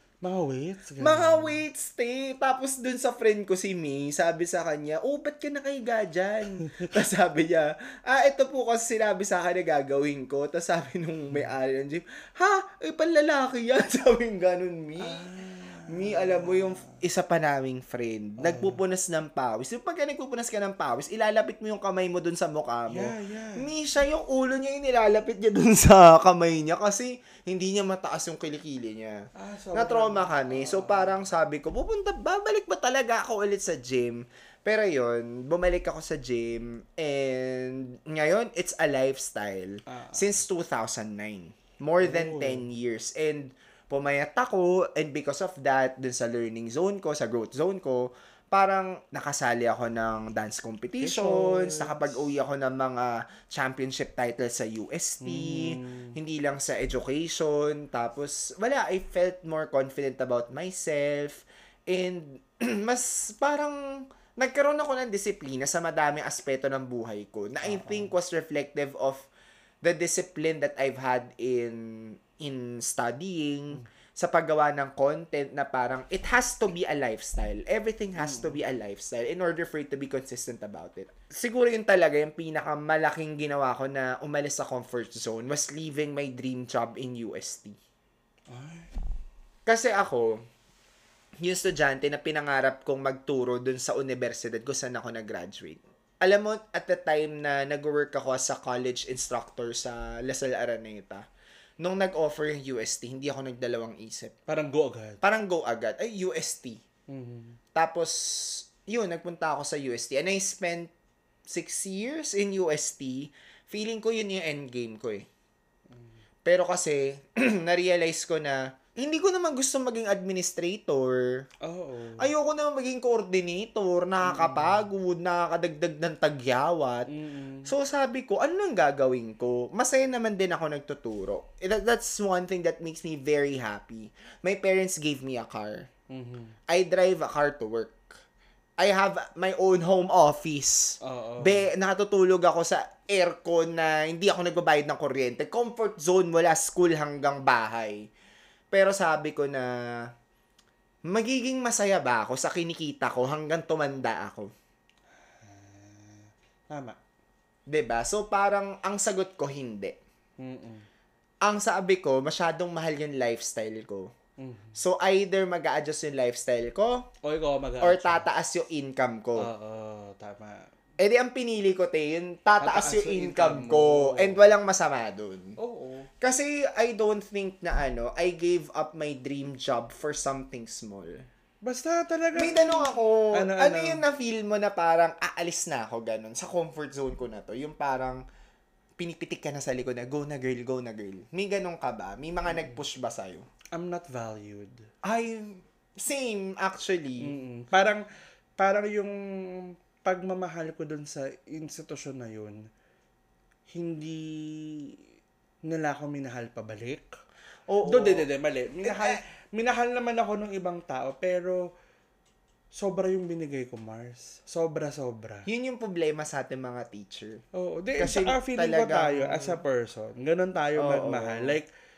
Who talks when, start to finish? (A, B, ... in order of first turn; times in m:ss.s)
0:00.2-0:01.6 A
0:01.0-0:15.3 B
0:15.0-0:17.0 A
0:15.9-1:09.3 B
0:18.4-0:18.8 A
0:22.9-0:23.7 A
0:29.3-0:31.2 A
0:39.9-0:40.4 A
0:42.0-0:42.7 A
0:51.0-0:52.2 A
0:55.2-0:56.2 A
1:07.6-1:08.1 A
1:09.8-1:27.8 B
1:18.2-1:18.6 A
1:28.5-1:28.9 A
1:29.6-1:30.4 B
1:31.4-1:41.2 B
1:41.8-1:44.3 B
1:44.5-1:45.2 A
1:45.2-1:46.8 B
1:47.1-1:47.6 A
1:47.7-1:50.9 B
1:51.5-1:55.3 B
1:55.9-1:56.2 A
1:56.4-2:01.5 B
2:01.6-2:02.3 A
2:02.2-2:07.1 B
2:04.2-2:04.9 A
2:07.1-2:07.7 A
2:07.6-2:15.9 B
2:16.1-2:16.6 A
2:16.7-2:18.1 B
2:18.8-2:28.1 B
2:21.0-2:21.7 A
2:28.7-2:29.7 B
2:31.1-2:34.5 B
2:35.3-2:37.0 A
2:37.7-2:40.0 B
2:40.4-2:40.8 A
2:41.4-2:44.1 B
2:44.4-2:44.8 A
2:44.7-2:47.1 B
2:47.2-2:48.3 A
2:47.8-2:49.5 B
2:49.4-2:50.7 A
2:51.0-2:55.6 B
2:52.6-2:54.5 A
2:55.6-2:56.1 A
2:56.2-3:01.2 B
3:01.6-3:04.0 A
3:02.4-3:08.2 B
3:09.0-3:13.4 B
3:12.5-3:12.8 A
3:13.7-3:14.8 A
3:15.0-3:17.3 B
3:17.2-3:18.0 A
3:18.6-3:22.7 A
3:23.7-3:25.0 A
3:25.6-3:27.2 A
3:27.7-3:28.2 B
3:27.8-3:31.6 A
3:28.8-3:29.2 B
3:32.7-3:35.5 A
3:35.5-3:37.4 B
3:37.5-3:41.7 A
3:38.0-3:39.6 B
3:40.8-3:41.6 B